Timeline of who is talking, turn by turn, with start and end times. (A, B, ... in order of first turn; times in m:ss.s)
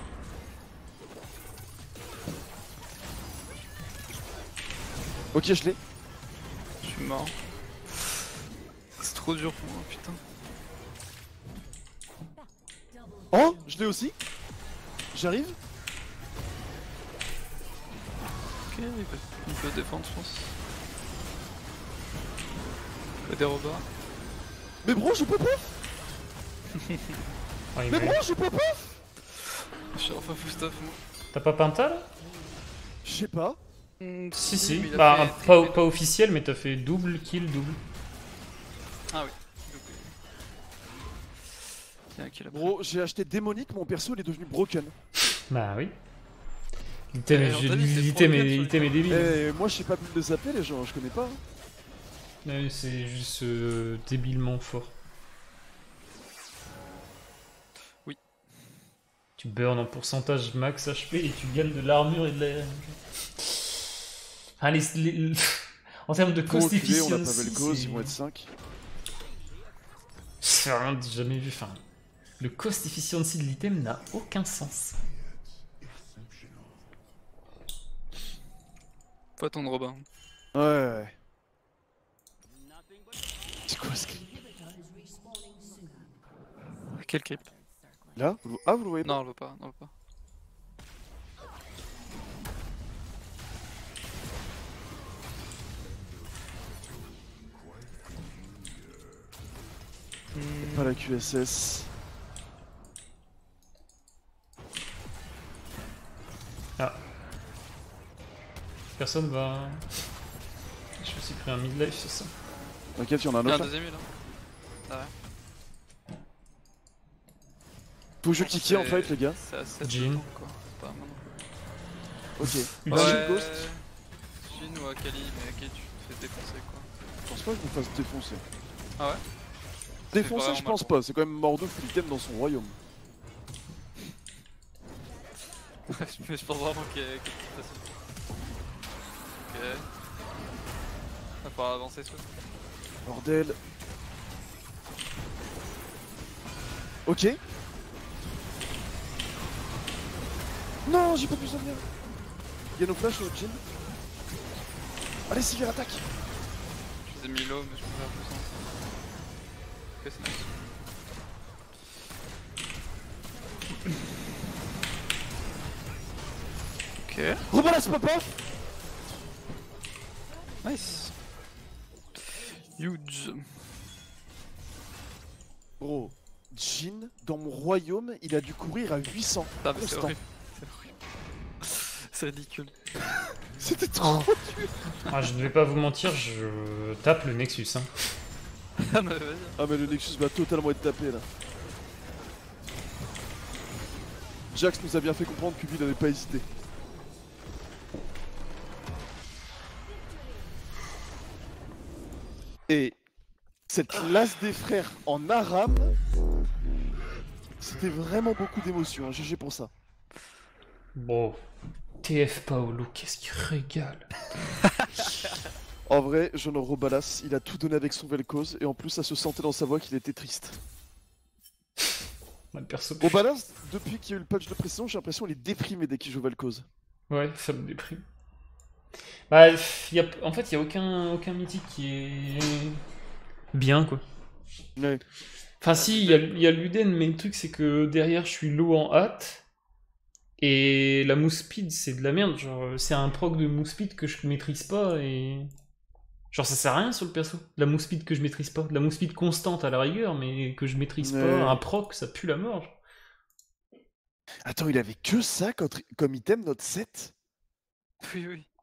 0:05.3-0:05.8 A
0:06.8-0:07.4 B
0:07.9-0:08.2 B
0:08.9-0:10.2 B
0:13.3-0:14.2 A
0:15.1-0:15.6 A
0:18.7-0:20.5 B
0:23.2-0:23.8 B
0:24.8-0:25.8 A
0:26.7-0:27.2 B
0:27.7-0:28.2 C
0:27.9-0:29.0 A
0:29.9-0:31.0 B
0:31.3-0:32.1 C
0:33.0-0:33.6 A
0:34.0-0:35.8 B
0:34.4-0:37.8 C
0:39.1-0:40.2 B
0:42.1-0:42.7 B
0:42.5-0:44.9 A
0:45.5-0:46.0 C
0:47.1-0:49.4 C
0:47.3-0:49.3 B
0:49.1-0:51.4 A
0:52.4-0:54.9 C
0:59.4-1:04.0 C
1:04.6-1:08.1 C
1:06.5-1:08.5 A
1:10.4-1:11.8 C
1:12.4-1:15.0 C
1:19.4-1:20.0 B
1:20.5-1:21.1 A
1:23.7-1:24.3 A
1:26.9-1:27.5 B
1:28.1-1:29.2 A
1:29.0-1:29.9 B
1:40.3-1:41.1 B
1:40.6-1:41.9 A
1:49.0-1:50.1 C
1:51.0-1:52.3 C
1:53.0-1:53.7 A
1:53.4-1:54.1 B
1:54.9-1:55.1 B
1:58.2-1:59.4 A
1:58.4-2:01.5 B
1:59.8-2:00.2 C
2:02.4-2:03.7 A
2:02.4-2:03.2 C
2:02.9-2:03.8 B
2:04.4-2:06.9 B
2:07.3-2:08.4 A
2:09.0-2:09.2 B
2:10.1-2:12.8 A
2:10.1-2:11.0 B
2:15.8-2:18.0 B
2:19.4-2:19.9 B
2:21.4-2:22.3 B
2:23.0-2:23.6 A
2:27.0-2:27.4 A
2:30.8-2:31.8 A
2:32.8-2:33.6 A
2:35.3-2:36.1 A
2:37.0-2:38.5 B
2:40.0-2:40.6 B
2:47.0-2:47.4 B
2:47.5-2:48.4 A
2:50.6-2:51.2 B
2:52.3-2:53.6 B
2:55.8-3:00.1 A
2:59.6-3:00.9 B
3:01.6-3:02.7 B
3:03.6-3:04.7 A
3:05.1-3:08.1 C
3:08.8-3:09.9 B
3:09.6-3:11.3 A
3:14.5-3:16.5 A
3:22.7-3:23.0 A
3:23.7-3:26.0 A
3:27.6-3:29.7 A
3:30.9-3:31.4 C
3:32.0-3:34.1 C
3:34.7-3:35.4 B
3:35.9-3:40.6 A
3:42.5-3:43.2 C
3:43.0-3:46.6 A
3:47.1-3:48.0 C
3:49.3-3:52.8 C
3:53.5-3:54.0 C
3:54.8-3:55.0 A
3:55.6-3:59.4 C
3:55.7-3:56.4 B
4:00.4-4:05.5 C
4:06.3-4:12.8 C
4:11.0-4:11.6 A
4:14.4-4:17.1 A
4:18.0-4:18.5 B